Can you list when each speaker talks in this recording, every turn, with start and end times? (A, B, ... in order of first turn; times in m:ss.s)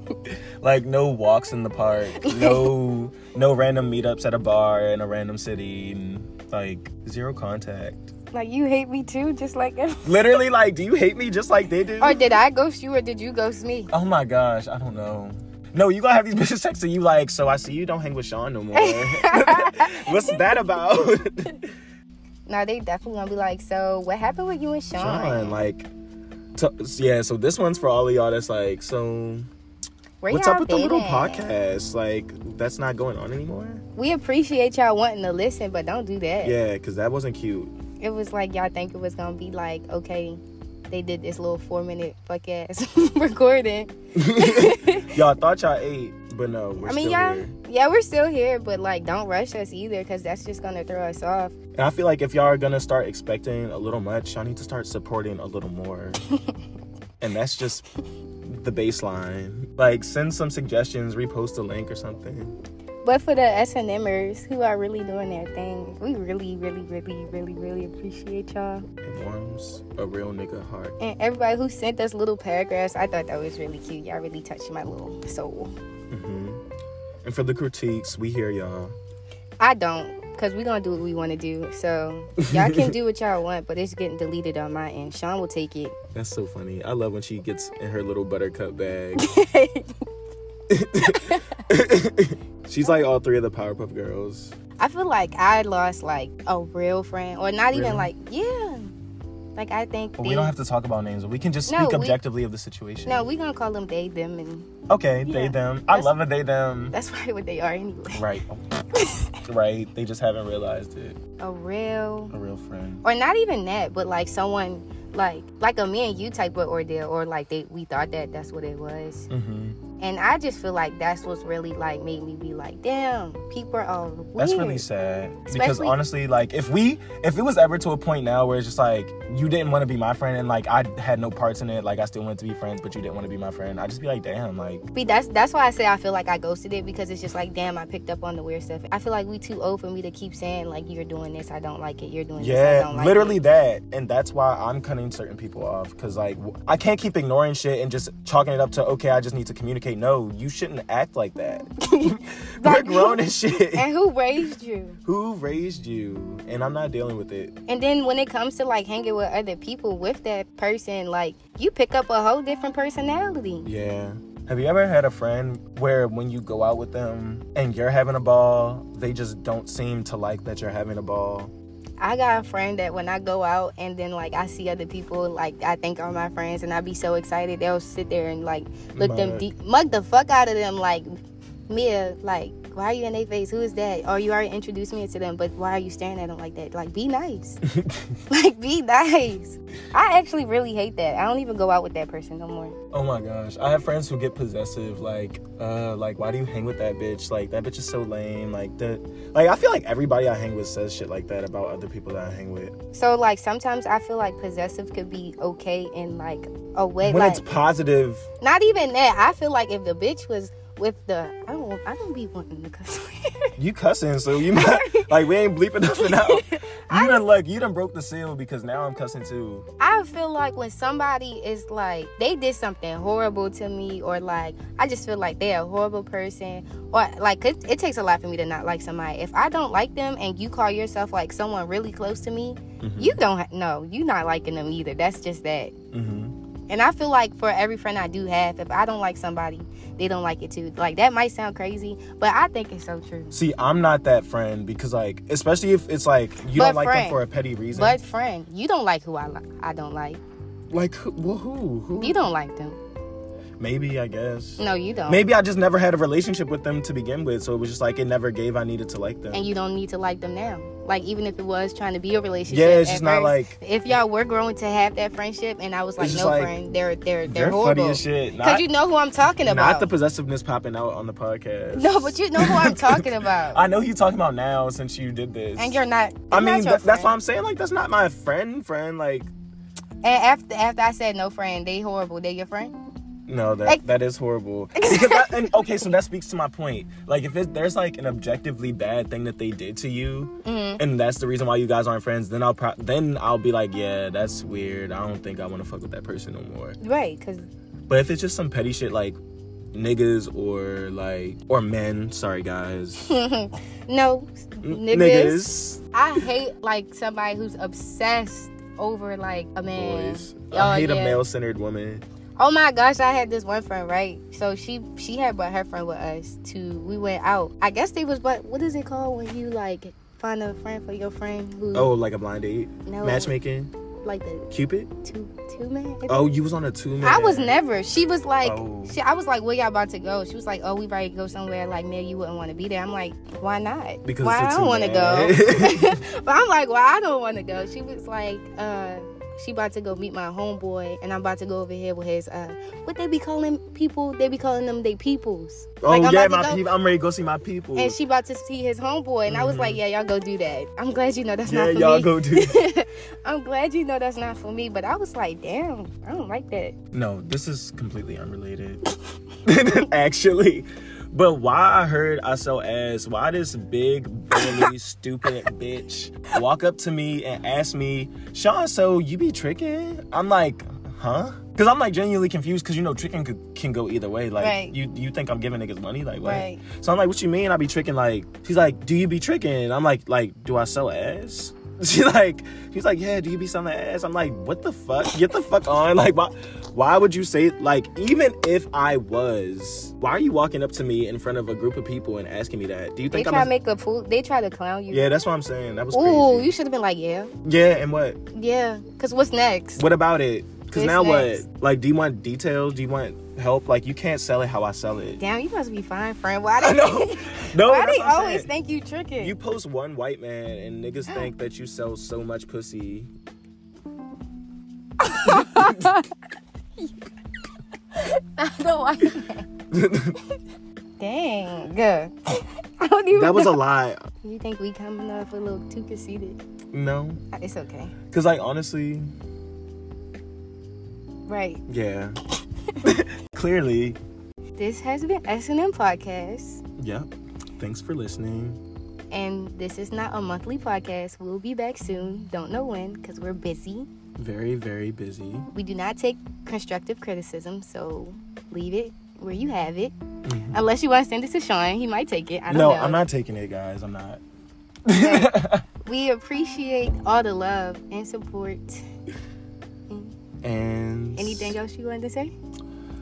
0:00.3-0:08.1 A
0:02.2-0:02.7 B
0:08.3-0:10.4 B
0:10.0-0:12.2 A
0:12.0-0:13.9 B
0:13.9-0:21.7 A
0:18.7-0:20.4 B
0:22.5-0:25.6 B
0:25.0-0:25.9 A
0:26.6-0:29.5 A
0:30.2-0:31.5 B
0:30.3-0:33.8 A
0:34.0-0:36.6 B
0:36.4-0:37.7 A
0:38.0-0:45.2 B
0:44.2-0:47.5 A
0:46.8-0:51.6 B
0:51.8-0:56.2 A
0:57.2-0:57.9 A
0:58.4-1:02.6 A
1:03.0-1:08.9 B
1:09.0-1:11.0 A
1:11.0-1:15.7 B
1:16.1-1:16.6 A
1:17.2-1:19.0 A
1:19.6-1:26.0 B
1:22.5-1:22.8 A
1:26.2-1:29.2 A
1:29.2-1:29.9 B
1:30.7-1:34.6 A
1:31.0-1:31.6 B
1:34.8-1:38.9 B
1:37.7-1:38.1 A
1:39.6-1:40.5 B
1:40.2-1:43.3 A
1:41.7-1:42.2 B
1:43.1-1:44.7 B
1:44.9-1:47.0 A
1:45.2-1:46.1 B
1:46.9-1:48.2 B
1:48.1-1:48.6 A
1:48.9-1:49.3 B
1:49.5-1:51.2 A
1:51.4-1:52.3 B
1:52.3-1:53.0 A
1:53.0-1:59.3 B
1:59.3-1:59.8 A
2:00.0-2:04.8 B
2:04.4-2:14.8 A
2:05.5-2:06.0 B
2:14.9-2:23.4 B
2:22.4-2:33.9 A
2:31.9-2:35.0 B
2:35.0-2:37.5 A
2:37.7-2:43.7 B
2:43.6-2:51.5 A
2:52.0-3:01.1 B
2:59.0-2:59.5 A
3:01.7-3:07.6 B
3:08.3-3:12.8 B
3:12.9-3:22.7 A
3:22.9-3:27.4 B
3:27.0-3:28.3 A
3:28.4-3:33.5 B
3:33.6-3:39.7 A
3:34.4-3:35.4 B
3:35.9-3:37.2 B
3:39.8-3:55.7 B
3:52.8-3:53.2 A
3:55.9-3:56.4 A
3:56.7-4:03.4 B
4:03.3-4:08.0 A
4:06.5-4:07.2 B
4:07.7-4:10.2 B
4:10.7-4:12.2 A
4:12.0-4:12.8 B
4:13.6-4:19.5 A
4:14.6-4:15.3 B
4:19.3-4:29.9 B
4:22.5-4:23.6 A
4:26.0-4:26.5 A
4:27.3-4:28.7 A
4:29.4-4:39.3 A
4:31.8-4:33.6 B
4:35.6-4:37.1 B
4:40.0-4:42.7 B
4:43.3-4:56.8 A
4:44.8-4:45.8 B
4:50.4-4:50.8 B
4:56.8-4:57.5 B
4:57.9-4:59.2 A
4:59.7-5:03.2 A
5:03.0-5:11.2 B
5:04.6-5:06.2 A
5:09.7-5:12.0 A
5:12.4-5:21.9 B
5:21.7-5:23.7 A
5:22.9-5:23.4 B
5:24.0-5:24.5 B
5:24.5-5:24.9 A
5:25.0-5:26.3 B
5:26.1-5:27.5 A
5:27.0-5:46.6 B
5:28.4-5:29.0 A
5:34.0-5:36.0 A
5:45.8-5:48.0 A
5:47.8-5:56.8 B
5:49.3-5:49.8 A
5:51.4-5:52.6 A
5:56.9-5:58.8 A
5:59.4-6:33.5 A
6:04.4-6:04.7 B
6:14.4-6:14.8 B
6:16.2-6:16.6 B
6:33.1-6:35.1 B
6:34.9-6:36.6 A
6:35.9-6:37.3 B
6:37.4-6:38.2 A
6:38.3-6:39.8 B
6:39.8-6:45.2 A
6:40.7-6:41.4 B
6:45.2-6:49.3 B
6:46.6-6:48.5 A
6:49.2-6:53.1 A
6:55.0-6:56.1 B
6:57.9-6:59.5 B
6:59.7-7:00.2 A
7:01.0-7:03.6 B
7:03.1-7:04.0 A
7:04.2-7:06.4 B
7:06.7-7:07.2 A
7:07.3-7:08.0 B
7:08.1-7:09.1 A
7:11.3-7:11.6 B
7:11.7-7:12.2 A
7:12.8-7:14.0 A
7:14.6-7:16.6 B
7:16.8-7:18.6 A
7:19.1-7:23.9 B
7:24.2-7:25.5 A
7:25.5-7:29.9 B
7:30.2-7:30.6 A
7:30.5-7:33.0 B
7:32.5-7:34.2 A
7:34.9-7:35.6 A
7:35.0-7:35.3 B
7:35.8-7:38.8 B
7:39.9-7:40.2 B
7:40.4-7:41.6 A
7:41.2-7:42.3 B